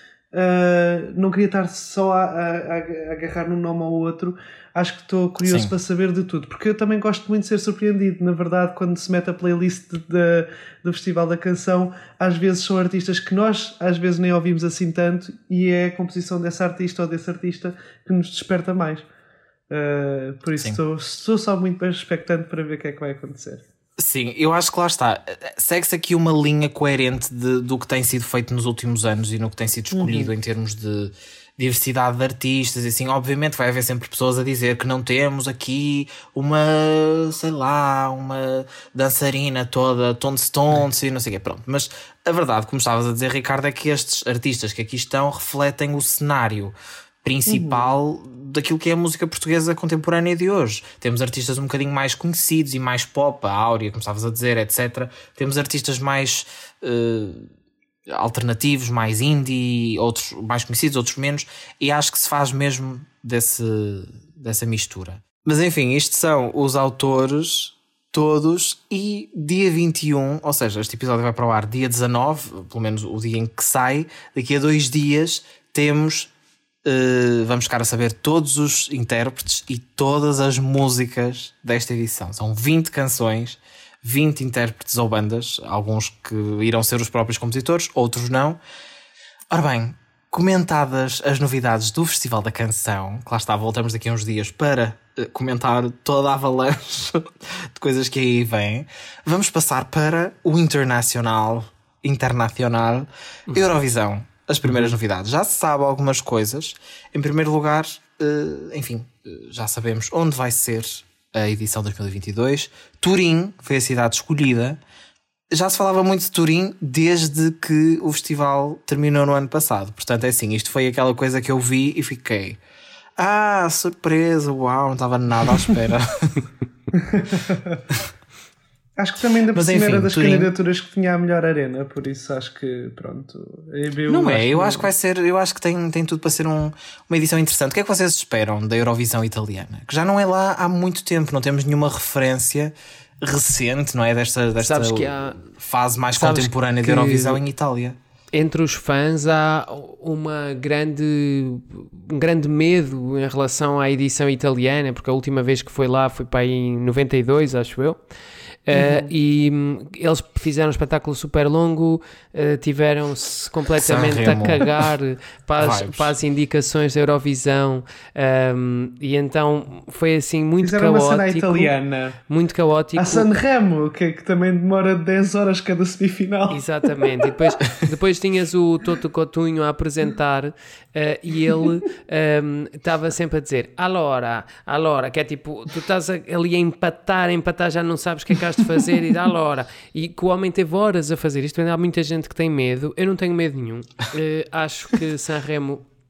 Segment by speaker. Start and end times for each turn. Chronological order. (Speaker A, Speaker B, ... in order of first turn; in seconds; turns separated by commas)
Speaker A: 0.3-19.0, Speaker B: 5.4-5.7, Speaker A: 19.7-23.6, Speaker B: 24.0-57.5, Speaker A: 29.9-30.3, Speaker A: 47.5-47.8, Speaker B: 58.1-76.3, Speaker B: 76.8-88.6, Speaker B: 89.5-114.8, Speaker B: 115.5-122.6, Speaker B: 123.2-126.4, Speaker A: 126.9-127.8, Speaker A: 129.0-134.9, Speaker B: 129.5-130.5, Speaker B: 134.1-148.0, Speaker C: 144.6-145.4, Speaker C: 146.1-147.4, Speaker C: 148.3-158.0, Speaker C: 158.7-171.7, Speaker A: 158.7-159.1, Speaker B: 163.8-164.9, Speaker B: 165.6-166.1, Speaker A: 170.6-172.2, Speaker C: 172.3-173.3, Speaker A: 172.9-176.6, Speaker C: 176.5-195.8